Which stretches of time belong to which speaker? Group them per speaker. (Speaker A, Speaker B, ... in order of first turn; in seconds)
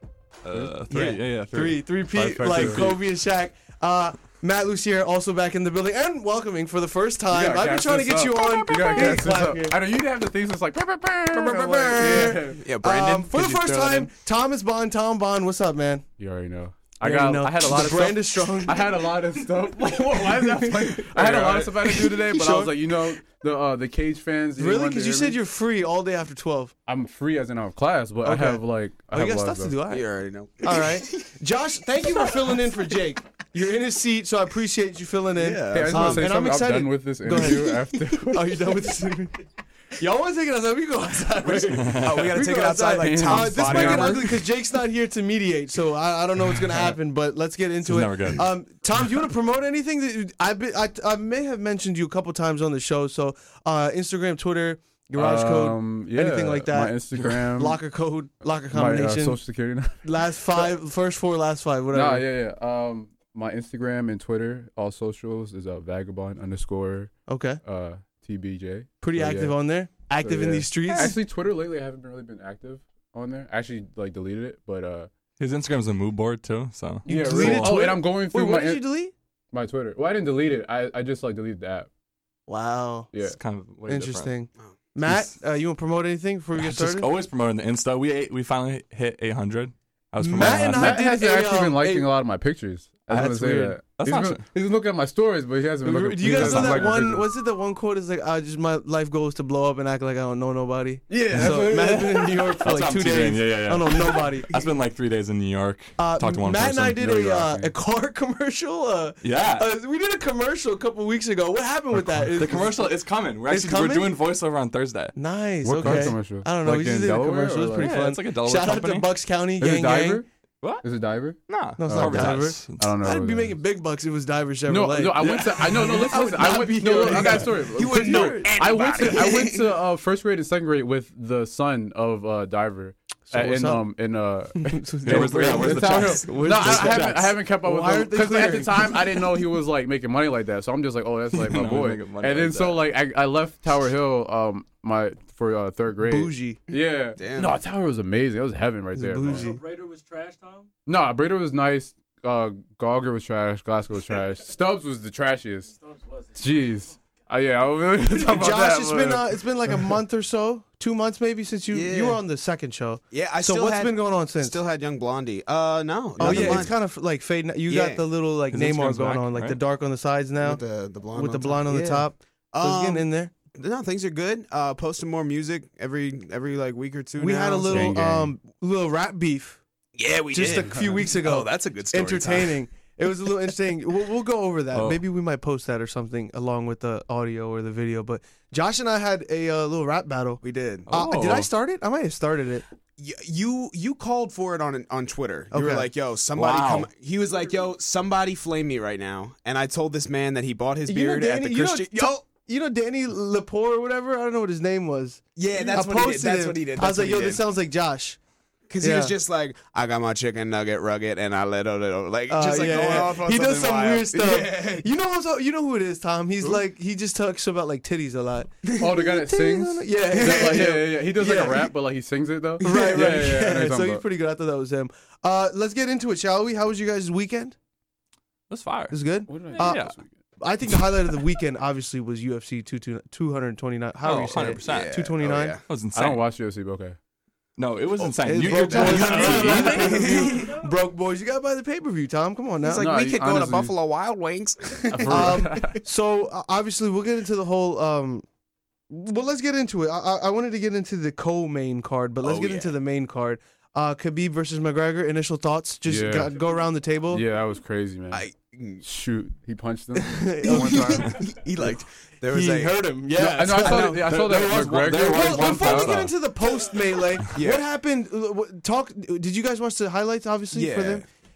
Speaker A: 0.4-1.8, 41.7-42.3, 47.8-48.5, 75.4-77.8, 83.2-84.3, 85.0-85.3, 86.5-91.0, 93.1-94.4, 96.3-96.9, 102.6-107.4, 109.2-109.7, 111.9-115.1, 115.8-116.2, 117.8-119.1, 121.5-122.9, 135.0-137.3, 141.4-142.9, 166.2-166.7, 168.5-169.6, 184.7-185.0, 190.9-191.5, 196.3-196.9, 228.5-229.0, 229.6-229.9, 234.0-235.0, 235.6-236.2, 237.6-240.0, 264.1-266.1
Speaker B: 0.5-0.8, 2.1-3.0, 7.3-12.6, 16.2-25.4, 26.9-29.8, 35.7-38.8, 42.3-44.3, 55.1-57.8, 58.7-60.7, 61.9-67.1, 67.6-69.5, 70.2-75.1, 77.0-78.8, 79.5-81.9, 90.4-97.3, 101.1-102.6, 107.0-107.7, 115.6-118.0, 119.6-120.2, 120.8-123.6, 124.7-149.5, 150.8-155.7, 156.3-159.9, 177.7-178.3, 218.8-224.0, 229.3-230.1, 235.9-237.0, 238.8-240.3, 242.7-243.7, 244.9-245.8, 255.8-256.4, 257.1-258.2, 258.8-260.9, 263.1-265.9
Speaker C: 0.9-9.8, 11.3-16.0, 17.0-18.8, 20.6-22.7, 24.6-26.7, 28.2-30.1, 30.6-39.4, 40.0-56.9, 57.5-59.4, 60.0-62.2, 67.3-67.6, 69.0-71.2, 77.0-79.1, 82.5-83.1, 83.9-87.1, 90.2-92.1, 95.8-104.6, 106.0-112.9, 113.5-114.1, 115.2-120.2, 121.8-128.5, 133.3-133.8, 134.6-139.2, 146.0-146.6, 148.9-149.6, 158.2-164.6, 166.2-170.6, 171.1-173.3, 177.2-179.6, 180.3-192.7, 195.5-195.9, 200.9-208.2, 208.8-209.1, 212.3-221.7, 222.6-227.5, 228.9-229.8, 230.4-235.6, 238.2-242.8, 245.1-248.2, 248.9-257.2, 259.9-261.8, 262.3-264.3, 264.9-271.0
Speaker D: 11.6-14.1, 29.9-31.3, 32.1-32.4, 35.4-36.3, 41.4-44.4, 101.4-101.8, 125.8-129.7, 147.2-147.6, 161.7-162.2, 163.1-166.8, 167.7-168.0, 170.4-177.9, 179.9-182.6, 190.4-190.9, 193.0-202.1, 205.3-207.4, 208.7-214.9, 218.6-219.0, 220.1-220.7, 222.6-223.2, 234.7-235.6, 238.0-240.5, 242.6-245.5, 252.2-252.8, 258.1-258.8, 260.4-262.8, 263.6-264.2, 267.3-267.6, 270.5-271.0
Speaker E: 149.2-150.7, 155.8-156.7, 239.7-240.7, 256.1-256.7, 261.1-261.4